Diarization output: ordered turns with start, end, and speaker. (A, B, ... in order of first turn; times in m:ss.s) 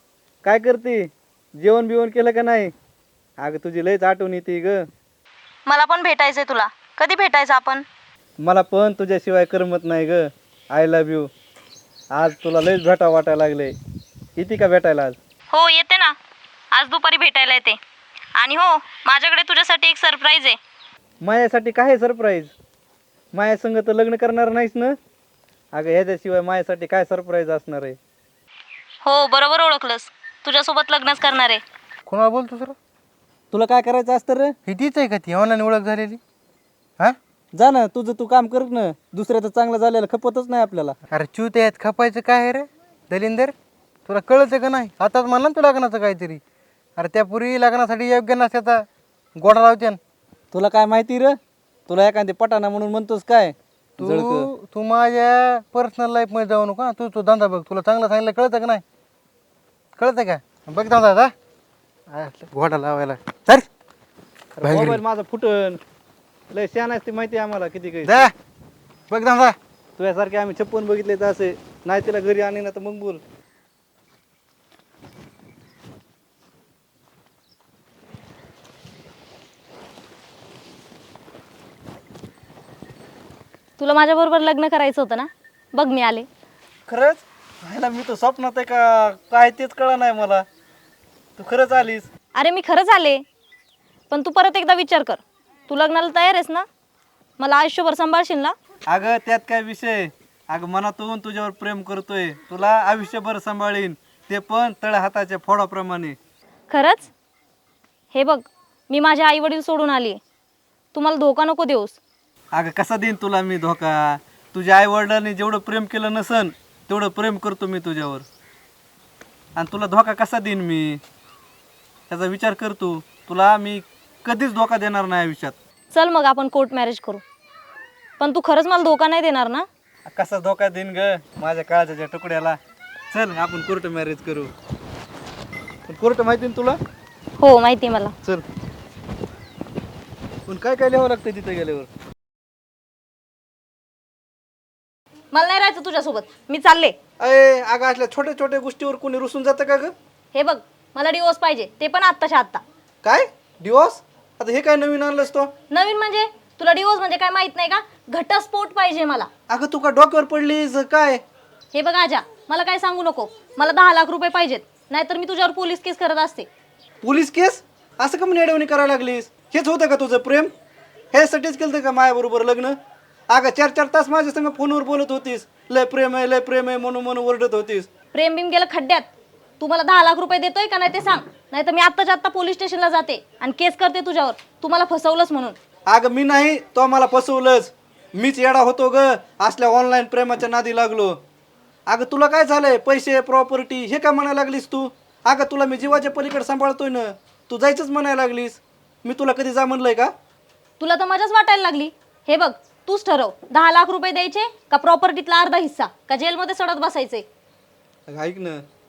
0:00.4-0:01.1 A
0:01.6-0:02.7 A
0:03.4-0:04.8 A
0:05.6-0:07.8 B
0:08.4-0:11.3 A
0:12.1-0:13.7 A
0:14.4-0:15.2 A
0:15.5-0:16.1 B
0:16.7-0:17.8 B
0:18.4-0:20.6 B
0:21.2-0:22.5 A
0:23.3-0:25.0 A
0:25.7-0:28.0 A
0:29.0-0:31.6 B
0:32.1-0:32.7 C
0:33.5-0:34.5 A
0:34.6-0:36.2 C
0:37.5-0:41.0 A
0:41.1-0:43.5 C
0:44.0-0:46.4 C
0:47.0-0:48.8 C
0:49.4-0:50.0 C
0:50.5-0:51.4 A
0:51.9-0:54.5 A
0:54.0-0:58.8 C
1:00.0-1:01.3 C
1:02.1-1:03.7 C
1:04.6-1:05.8 A
1:04.6-1:05.0 C
1:06.5-1:08.3 A
1:08.0-1:08.3 C
1:09.1-1:09.6 C
1:10.0-1:13.2 A
1:23.8-1:26.3 B
1:26.9-1:30.4 A
1:31.4-1:32.1 A
1:32.3-1:33.2 B
1:34.1-1:36.6 B
1:37.4-1:38.5 B
1:38.9-1:46.2 A
1:46.7-1:47.1 B
1:48.1-1:50.2 B
1:50.9-1:52.0 B
1:52.5-1:58.2 A
1:59.6-2:01.0 A
2:02.1-2:05.6 A
2:05.9-2:07.2 B
2:08.2-2:09.6 B
2:10.1-2:12.6 A
2:13.1-2:14.5 A
2:15.9-2:16.8 A
2:17.4-2:18.1 B
2:20.5-2:21.9 A
2:25.3-2:26.9 B
2:27.2-2:29.9 A
2:30.3-2:32.6 B
2:33.0-2:35.5 A
2:35.7-2:39.3 B
2:39.5-2:41.2 A
2:41.7-2:46.5 B
2:47.0-2:50.5 A
2:51.1-2:52.8 A
2:53.3-2:57.9 A
2:58.1-2:59.1 B
2:59.6-3:05.6 B
3:05.9-3:11.2 A
3:11.9-3:20.1 A
3:20.8-3:27.2 B
3:28.1-3:28.6 A